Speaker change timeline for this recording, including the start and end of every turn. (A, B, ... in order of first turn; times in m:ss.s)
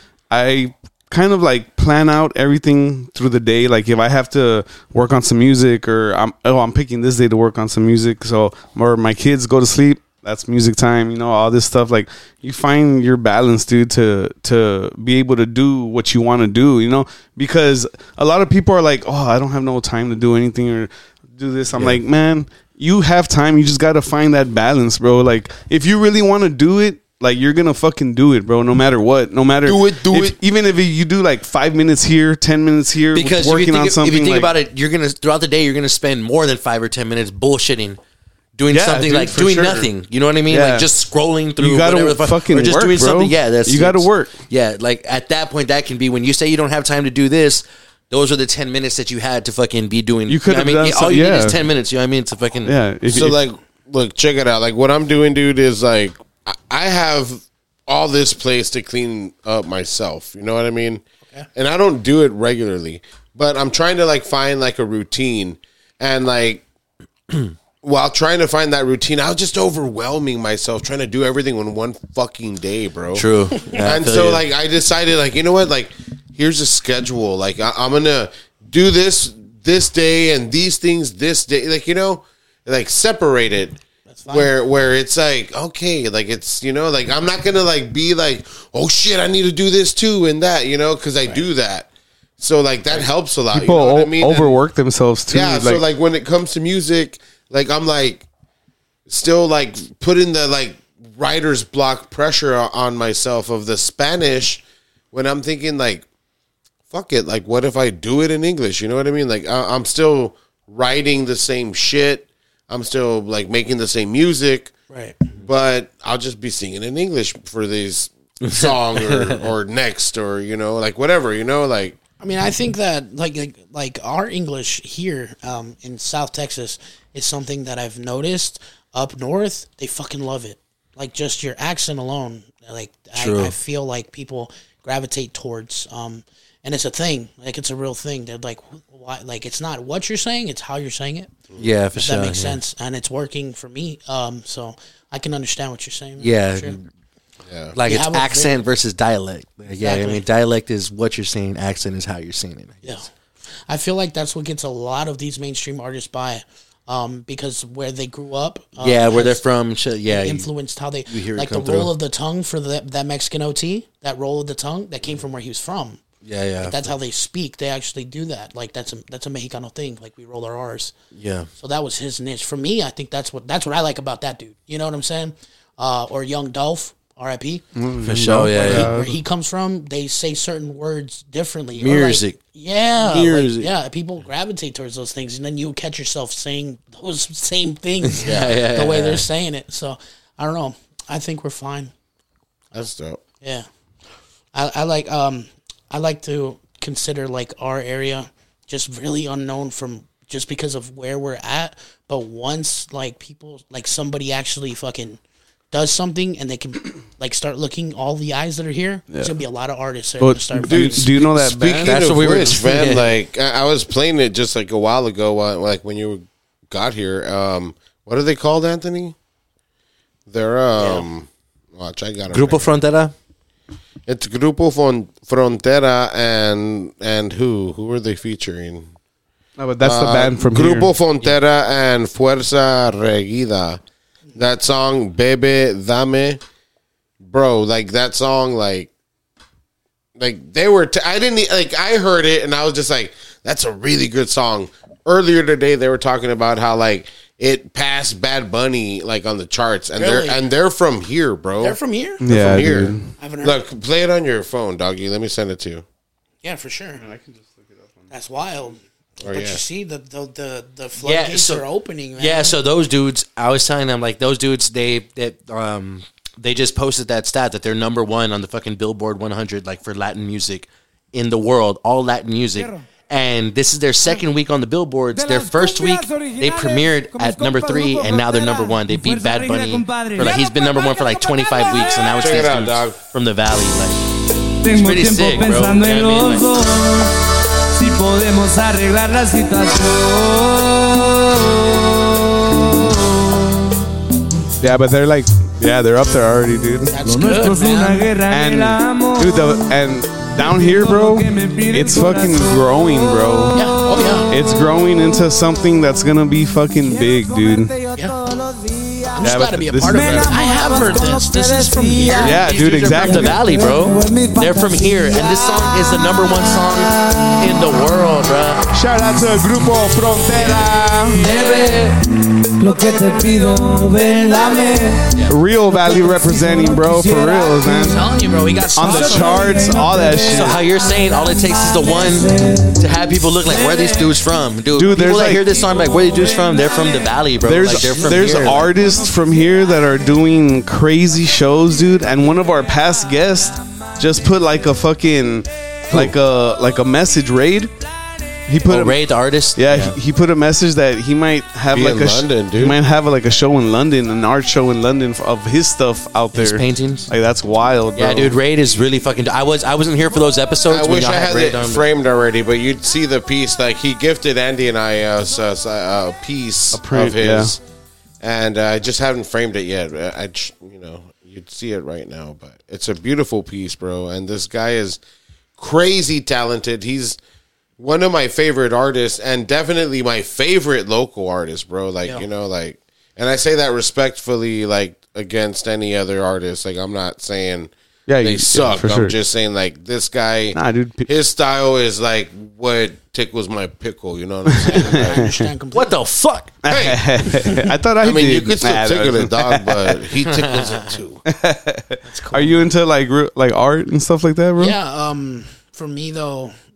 0:00.3-0:34.5 A
0:29.6-0:30.4 B
0:33.1-0:38.0 C
0:38.6-0:52.7 C
0:38.7-0:39.9 A
0:40.5-0:40.9 A
0:41.6-0:44.3 A
0:50.3-0:51.6 A
0:52.6-0:53.4 A
0:53.1-1:01.0 B
1:01.5-1:06.6 B
1:07.8-1:23.8 B
1:13.1-1:14.4 C
1:24.1-1:24.5 D
1:24.3-1:31.9 B
1:32.4-1:34.6 B
1:33.5-1:35.8 A
1:35.3-1:38.2 B
1:39.1-1:46.0 B
1:46.9-1:54.7 B
1:54.9-1:55.2 D
1:55.4-2:02.0 B
1:58.4-1:59.4 C
2:02.2-2:21.3 D
2:13.2-2:13.5 C
2:21.6-2:22.6 C
2:21.9-2:26.8 D
2:26.2-2:26.9 C
2:27.5-2:27.8 B
2:27.7-2:33.0 C
2:27.8-2:28.6 D
2:29.8-2:30.2 D
2:33.7-2:39.4 D
2:38.8-2:40.5 C
2:40.1-2:46.0 D
2:41.1-2:41.9 C
2:46.2-2:46.7 C
2:46.6-2:50.9 D
2:51.1-2:51.5 C
2:51.6-2:57.6 D
2:57.7-2:59.2 A
2:58.0-2:58.9 C
2:58.5-3:11.9 D
3:01.8-3:02.4 C
3:03.0-3:03.7 C
3:08.1-3:09.2 C
3:12.7-3:13.2 B
3:13.4-3:13.7 D
3:14.5-3:25.2 D
3:25.7-3:31.1 D
3:30.2-3:32.0 A
3:30.6-3:39.1 B
3:31.8-3:33.1 C
3:40.3-3:42.7 B
3:42.3-3:43.1 C
3:44.1-3:48.9 B
3:49.6-3:50.9 A
3:49.8-3:53.8 B
3:54.3-3:56.4 B
3:57.2-3:58.9 B
4:00.2-4:15.8 B
4:10.0-4:10.4 D
4:11.6-4:12.2 D
4:12.2-4:13.1 A
4:13.2-4:13.6 D
4:16.4-4:17.0 D
4:17.0-4:18.1 A
4:18.1-4:22.6 D
4:19.2-4:19.6 B
4:21.0-4:21.6 C
4:22.2-4:44.0 C
4:35.2-4:41.0 E
4:41.6-4:41.9 E
4:42.2-4:43.0 B
4:44.6-4:53.5 E
4:44.7-4:46.5 C
4:54.6-4:56.9 A
4:56.9-4:58.1 D
4:57.0-4:59.5 E
4:58.3-5:03.8 A
5:00.4-5:02.6 E
5:03.5-5:04.3 D
5:04.0-5:04.2 E
5:04.3-5:07.7 A
5:07.0-5:17.7 E
5:09.1-5:12.5 D
5:09.2-5:10.3 A
5:12.2-5:13.4 A
5:12.3-5:18.6 C
5:18.7-5:21.2 A
5:21.1-5:25.1 E
5:25.3-5:28.0 A
5:25.8-5:27.8 E
5:27.6-5:29.7 D
5:28.7-5:30.6 A
5:28.8-5:32.8 E
5:30.3-5:38.6 C
5:33.4-5:34.1 E
5:34.7-5:35.4 A
5:35.6-5:37.2 E
5:37.4-5:47.7 A
5:38.0-5:38.9 E
5:48.5-5:49.0 A
5:48.7-5:50.0 C
5:49.5-5:58.4 A
5:51.7-5:52.8 B
5:56.3-5:57.1 C
5:58.0-6:01.8 C
6:00.7-6:07.6 B
6:06.7-6:07.6 A
6:08.2-6:15.0 B
6:15.6-6:17.2 B
6:17.8-6:35.3 B
6:28.1-6:29.2 A
6:30.5-6:31.1 A
6:34.5-6:35.4 A
6:34.6-6:35.9 D
6:35.7-6:36.5 C
6:36.6-6:40.1 A
6:36.6-6:37.0 B
6:37.4-6:37.7 D
6:38.0-6:41.2 B
6:40.4-6:40.8 C
6:41.3-6:44.8 A
6:42.0-6:42.7 D
6:44.6-6:46.5 D